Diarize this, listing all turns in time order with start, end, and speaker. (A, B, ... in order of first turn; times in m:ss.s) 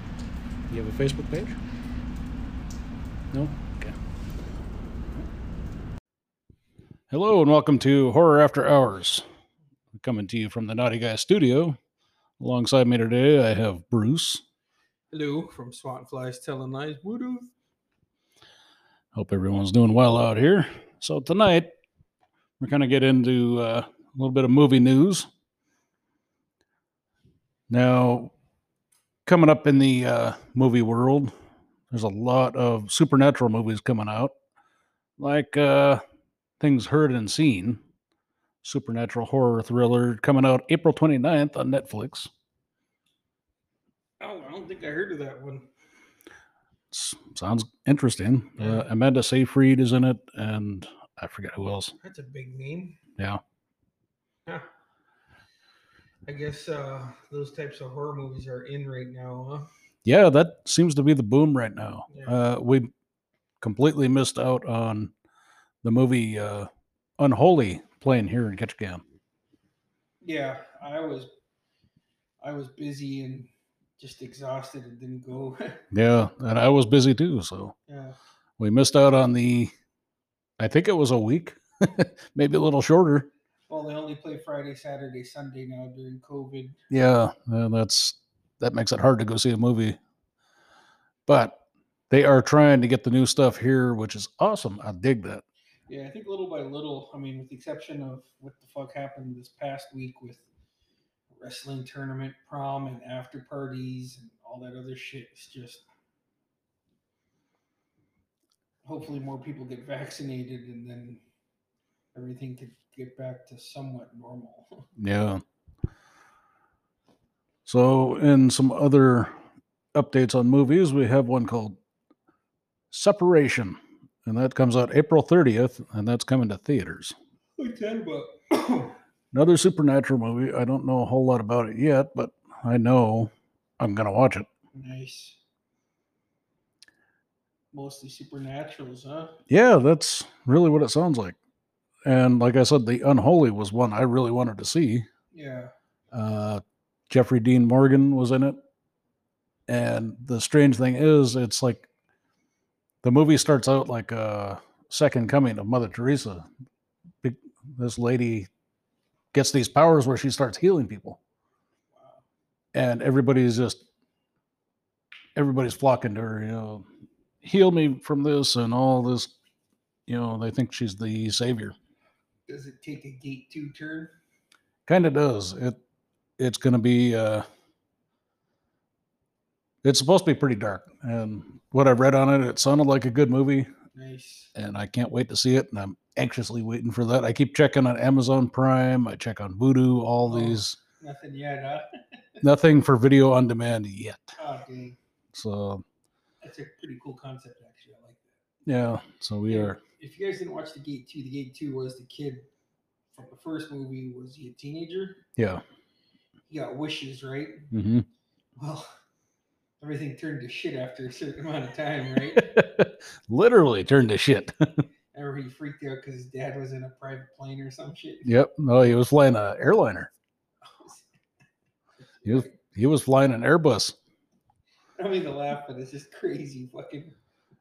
0:00.7-0:01.6 A
0:03.3-0:04.0 A
0:07.1-0:09.2 A
0:09.9-0:11.8 A
0:12.4-0:14.4 A
0:15.1-0:17.5 B
0:19.1-0:21.7 A
0:22.6-0:25.3 A
0:27.7-0:28.3 A
0:29.2-0:31.3 A
0:31.9-0:34.3 A
0:35.2-0:36.0 A
0:36.6-0:37.8 A
0:38.6-0:42.3 A
0:44.2-0:45.7 B
0:46.9-0:51.9 A
0:48.6-0:48.9 B
0:52.0-0:53.0 B
0:56.2-0:59.7 B
1:00.0-1:02.9 A
1:02.1-1:02.4 B
1:03.6-1:05.1 A
1:05.8-1:09.0 A
1:10.2-1:11.3 B
1:12.4-1:15.8 B
1:15.9-1:17.7 A
1:17.9-1:18.2 B
1:18.6-1:19.7 A
1:20.6-1:23.3 A
1:23.7-1:26.8 B
1:26.9-1:30.0 A
1:31.3-1:31.6 A
1:32.1-1:35.4 A
1:35.9-1:40.5 B
1:41.4-1:45.8 B
1:48.8-1:51.2 B
1:52.1-1:54.8 B
1:55.0-1:55.4 A
1:57.6-1:59.3 A
1:59.9-2:01.8 A
2:02.9-2:07.2 A
2:07.6-2:09.0 B
2:09.3-2:14.5 A
2:14.7-2:15.4 B
2:17.7-2:19.4 B
2:19.5-2:21.4 A
2:22.0-2:25.0 A
2:25.3-2:25.7 B
2:26.1-2:28.6 A
2:29.7-2:31.9 A
2:33.0-2:36.4 A
2:37.2-2:38.5 A
2:39.3-2:41.2 A
2:41.9-2:42.2 B
2:42.7-2:43.8 A
2:45.4-2:46.8 A
2:47.4-2:49.3 A
2:50.1-2:51.7 A
2:52.5-2:54.1 B
2:54.8-2:55.8 A
2:56.4-2:57.4 A
2:59.8-3:03.7 A
3:03.9-3:04.5 B
3:04.5-3:10.8 A
3:10.2-3:12.4 B
3:12.4-3:14.4 A
3:14.4-3:15.0 B
3:15.3-3:15.8 A
3:16.4-3:18.4 B
3:18.6-3:19.8 A
3:19.5-3:22.5 B
3:23.1-3:25.2 B
3:25.4-3:25.6 A
3:26.5-3:27.7 B
3:27.7-3:28.1 A
3:28.6-3:28.9 B
3:29.8-3:32.5 B
3:32.4-3:34.8 A
3:35.1-3:38.3 B
3:38.2-3:40.1 A
3:40.6-3:41.1 B
3:42.2-3:42.6 B
3:42.2-3:44.0 A
3:45.0-3:47.2 B